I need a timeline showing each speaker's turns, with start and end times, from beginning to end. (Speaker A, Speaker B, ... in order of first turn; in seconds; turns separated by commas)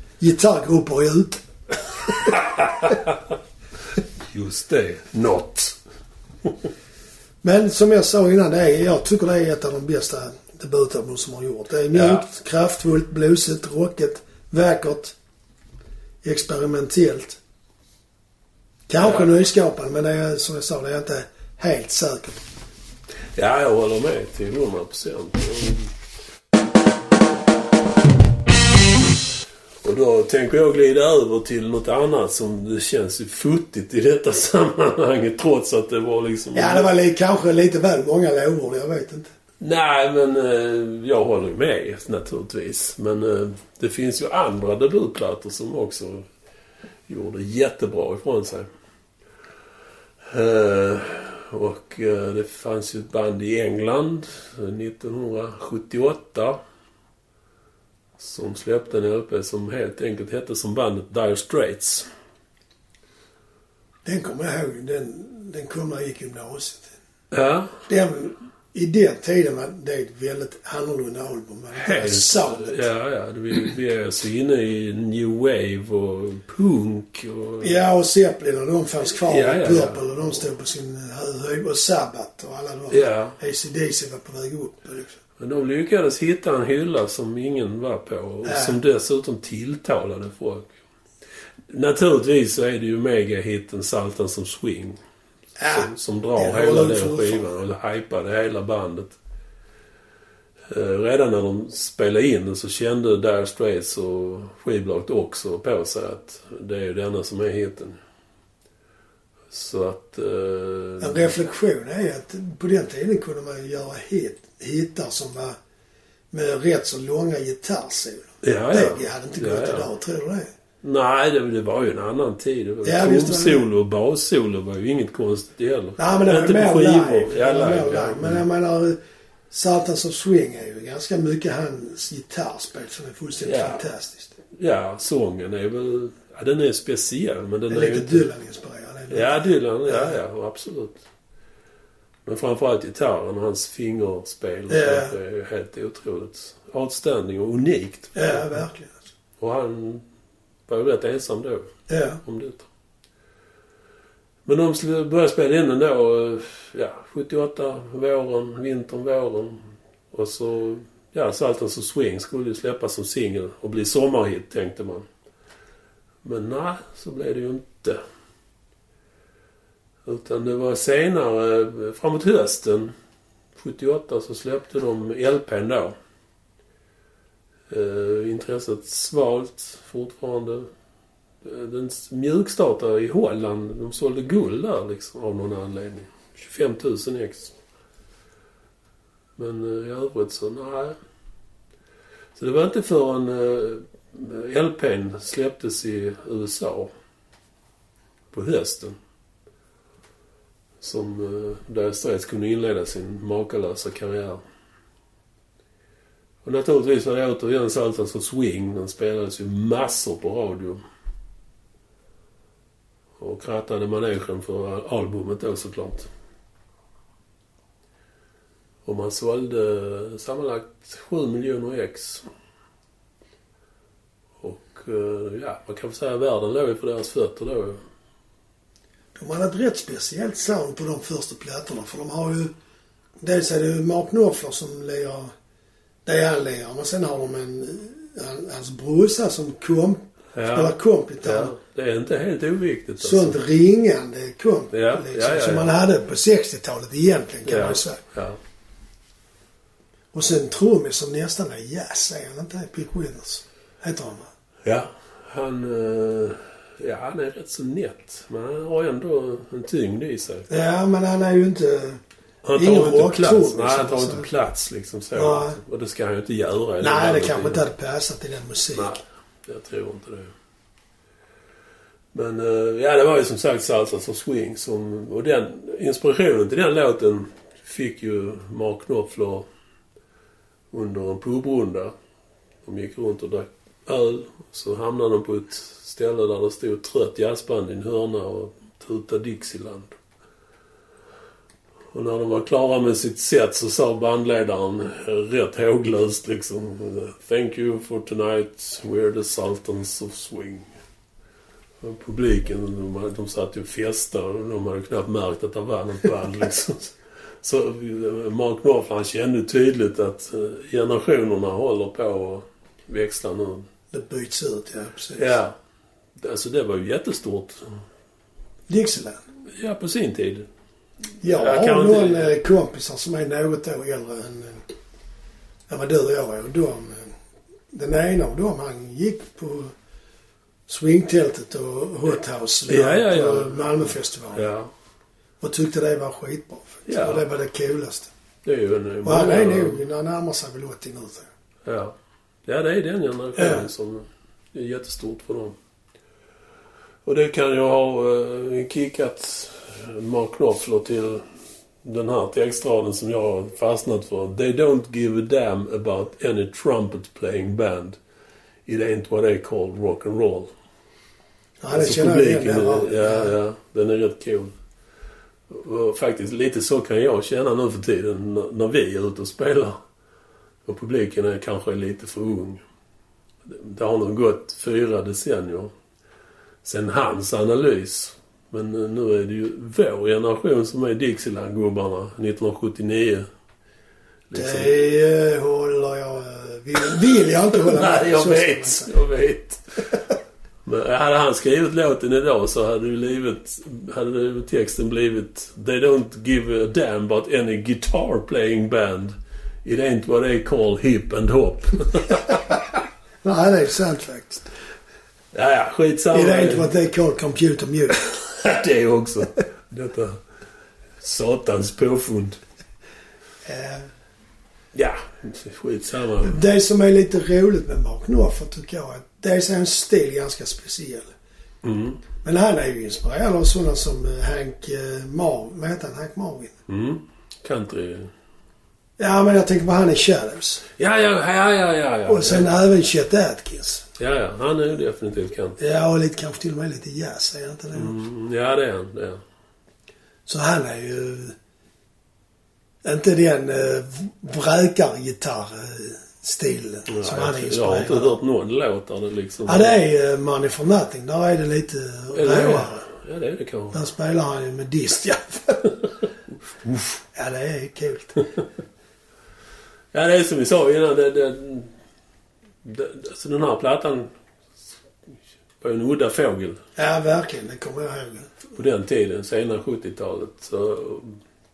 Speaker A: 0.2-2.4, Speaker B: 2.2-3.2, Speaker B: 4.3-5.8, Speaker A: 7.4-15.2, Speaker B: 11.9-12.2, Speaker A: 16.2-17.4, Speaker A: 18.9-22.4, Speaker B: 23.3-25.9, Speaker B: 29.8-36.9, Speaker A: 36.5-39.3, Speaker B: 39.6-46.3, Speaker B: 47.1-48.7, Speaker B: 50.2-56.6, Speaker B: 58.2-62.1, Speaker A: 64.0-66.9, Speaker B: 67.3-67.8, Speaker A: 67.9-72.8, Speaker B: 71.8-77.7, Speaker A: 77.6-85.2, Speaker B: 79.2-80.0, Speaker B: 82.9-83.4, Speaker B: 85.4-90.7, Speaker A: 88.4-88.8, Speaker B: 91.7-95.0, Speaker A: 95.6-97.5, Speaker B: 95.6-99.2, Speaker B: 100.7-108.0, Speaker B: 109.5-111.3, Speaker A: 111.0-115.6, Speaker A: 116.3-120.5, Speaker B: 118.4-119.9, Speaker B: 120.8-128.4, Speaker A: 122.8-123.7, Speaker A: 126.0-129.0, Speaker A: 129.5-134.4, Speaker B: 133.4-133.8, Speaker B: 134.6-138.3, Speaker A: 137.7-140.2, Speaker B: 139.1-141.0, Speaker B: 142.3-148.4, Speaker A: 144.7-145.2, Speaker A: 148.2-149.0, Speaker B: 149.4-150.1, Speaker B: 150.7-152.7, Speaker A: 151.9-152.2, Speaker B: 154.5-165.1, Speaker B: 166.2-168.0, Speaker B: 170.1-172.9, Speaker B: 173.6-176.0, Speaker B: 177.7-180.7, Speaker B: 181.4-187.5, Speaker B: 189.4-191.0, Speaker B: 192.4-196.9, Speaker B: 198.3-199.0, Speaker B: 200.8-204.4, Speaker B: 206.4-210.8, Speaker B: 213.2-216.1, Speaker B: 218.8-222.3, Speaker B: 224.4-227.8, Speaker A: 229.2-232.5, Speaker A: 233.2-235.3, Speaker A: 236.1-241.6, Speaker B: 240.3-243.4, Speaker A: 243.0-248.0, Speaker B: 244.7-245.7, Speaker B: 247.5-248.4, Speaker A: 250.1-254.3, Speaker B: 254.7-260.5, Speaker A: 260.5-262.0, Speaker B: 262.4-267.6, Speaker A: 262.6-264.3, Speaker A: 265.1-265.6, Speaker A: 266.8-269.0, Speaker B: 268.8-270.3, Speaker B: 272.1-279.5, Speaker B: 280.7-281.9, Speaker B: 282.6-290.0, Speaker B: 291.9-300.7, Speaker B: 301.8-313.7, Speaker A: 313.9-315.4, Speaker B: 315.2-315.5, Speaker B: 316.2-317.7, Speaker A: 318.7-319.2, Speaker B: 319.5-320.5, Speaker A: 321.2-324.7, Speaker B: 321.2-322.3, Speaker A: 325.7-327.1, Speaker A: 327.7-329.7, Speaker A: 330.7-334.5, Speaker B: 332.7-334.7, Speaker A: 335.4-338.1, Speaker B: 336.9-337.2, Speaker B: 338.4-339.8, Speaker A: 339.1-341.3, Speaker B: 341.6-341.9, Speaker B: 342.5-345.6, Speaker A: 343.4-343.7, Speaker B: 347.1-351.2, Speaker B: 351.8-358.0, Speaker B: 358.7-360.5, Speaker A: 361.6-363.3, Speaker B: 361.7-364.6, Speaker B: 365.5-369.8, Speaker B: 370.7-372.6, Speaker B: 373.5-375.7, Speaker B: 376.6-383.3, Speaker B: 384.3-384.8, Speaker A: 384.3-388.9, Speaker B: 387.5-390.0, Speaker B: 390.6-402.5, Speaker A: 403.2-404.5, Speaker B: 405.3-406.7, Speaker A: 406.1-408.1, Speaker B: 408.1-410.2, Speaker B: 411.0-412.4, Speaker A: 413.5-413.9, Speaker B: 414.7-416.4, Speaker A: 416.2-421.1, Speaker B: 421.6-422.0, Speaker A: 422.2-426.6, Speaker B: 426.7-428.1, Speaker A: 429.0-430.6, Speaker B: 430.8-432.5, Speaker A: 432.1-433.9, Speaker B: 434.0-435.6, Speaker A: 435.6-438.0, Speaker B: 437.7-439.2, Speaker A: 440.3-441.4, Speaker A: 442.8-448.2, Speaker B: 446.9-449.8, Speaker A: 449.5-452.8, Speaker B: 452.1-453.8, Speaker A: 453.7-455.8, Speaker A: 457.1-458.2, Speaker B: 459.9-461.7, Speaker B: 462.6-464.1, Speaker B: 465.6-466.6, Speaker A: 466.8-468.4, Speaker B: 468.6-471.2